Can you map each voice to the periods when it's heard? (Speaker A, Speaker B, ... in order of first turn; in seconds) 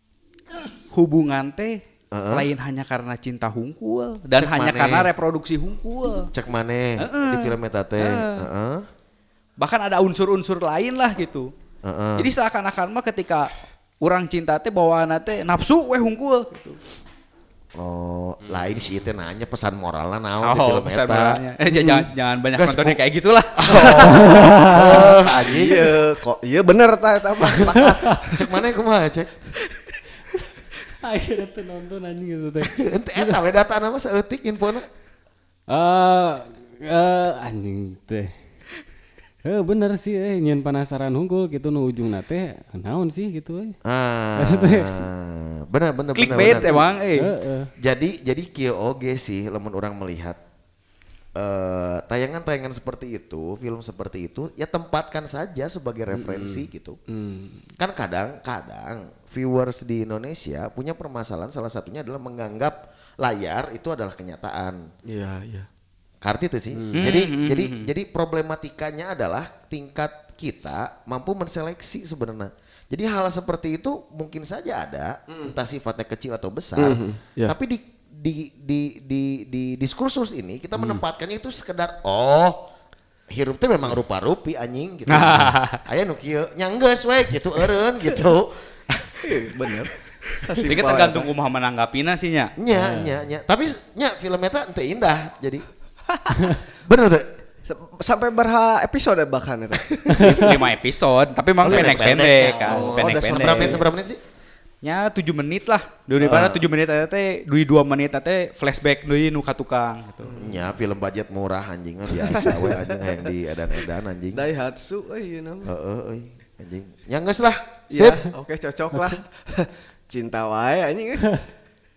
Speaker A: 0.9-1.8, 2.3-6.3, 7.0-8.5, 9.6-11.5, 12.2-16.8, 20.4-24.5, 46.1-47.3, 66.9-67.9, 85.1-85.8, 90.6-92.5, 100.2-103.8, 104.8-110.4
Speaker B: 2.1-2.5, 4.4-5.1, 6.3-8.8, 11.8-12.3, 17.8-21.4, 22.5-23.0, 23.6-26.0, 27.4-29.3, 32.6-34.9, 43.9-46.7, 47.8-50.4, 51.4-57.0, 57.8-64.8, 66.2-82.6, 83.3-89.2, 92.6-95.6, 96.8-97.2, 101.6-104.2, 106.2-106.6, 110.3-114.4, 115.7-118.3
Speaker C: 21.8-22.0, 25.2-28.4, 65.0-65.7, 76.8-77.5, 89.2-89.9, 90.4-91.3, 96.1-96.4, 97.6-100.2, 102.7-103.8, 112.1-113.3, 114.3-115.7, 117.9-121.4
Speaker D: 24.2-25.1, 31.0-33.4, 35.7-38.3, 39.5-43.8, 44.4-45.0, 46.6-47.7, 56.1-57.5, 92.8-93.2, 100.2-100.6